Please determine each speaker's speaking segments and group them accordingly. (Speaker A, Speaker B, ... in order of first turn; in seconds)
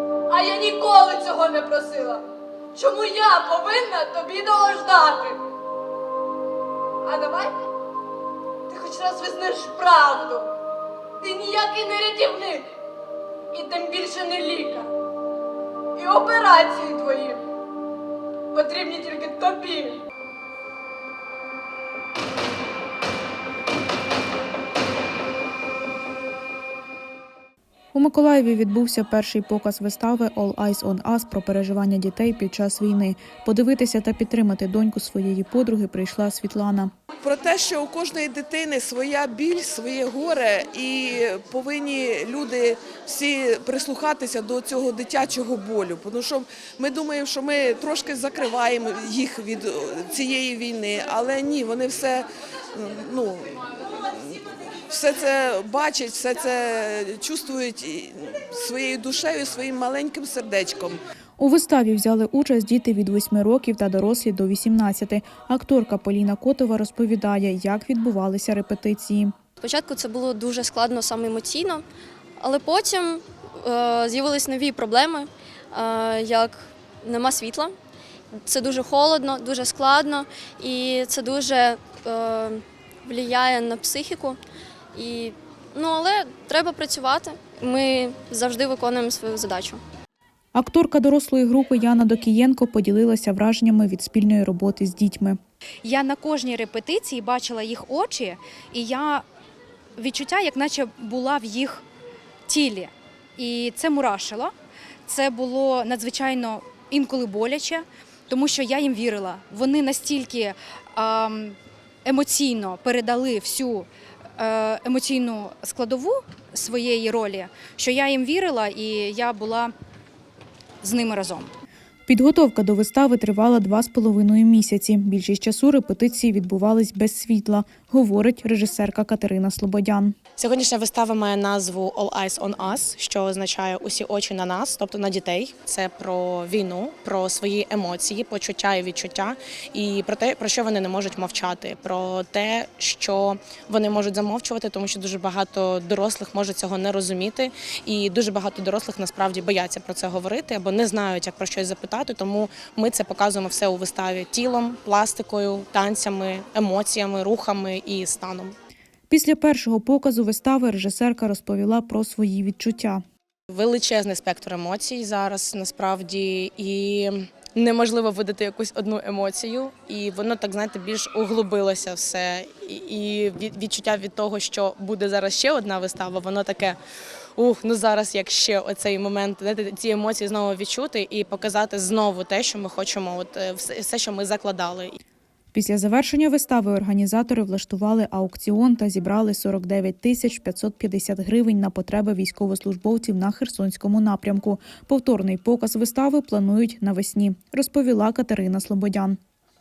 Speaker A: 0.3-2.2, 2.8-5.4, 7.0-7.6, 8.7-10.5, 11.2-12.7, 13.5-14.9, 16.0-17.4, 18.5-20.0
Speaker B: 27.9-36.9, 61.4-69.3, 90.5-95.4, 122.1-130.2, 159.1-163.0, 185.5-199.2
Speaker C: 37.2-61.0
Speaker D: 69.6-71.8, 72.4-77.7, 78.4-84.4, 84.9-89.8
Speaker E: 95.8-99.2, 100.0-101.8, 102.5-104.5, 105.1-119.7, 120.8-121.5
Speaker F: 130.4-158.5, 163.5-176.8, 177.4-185.0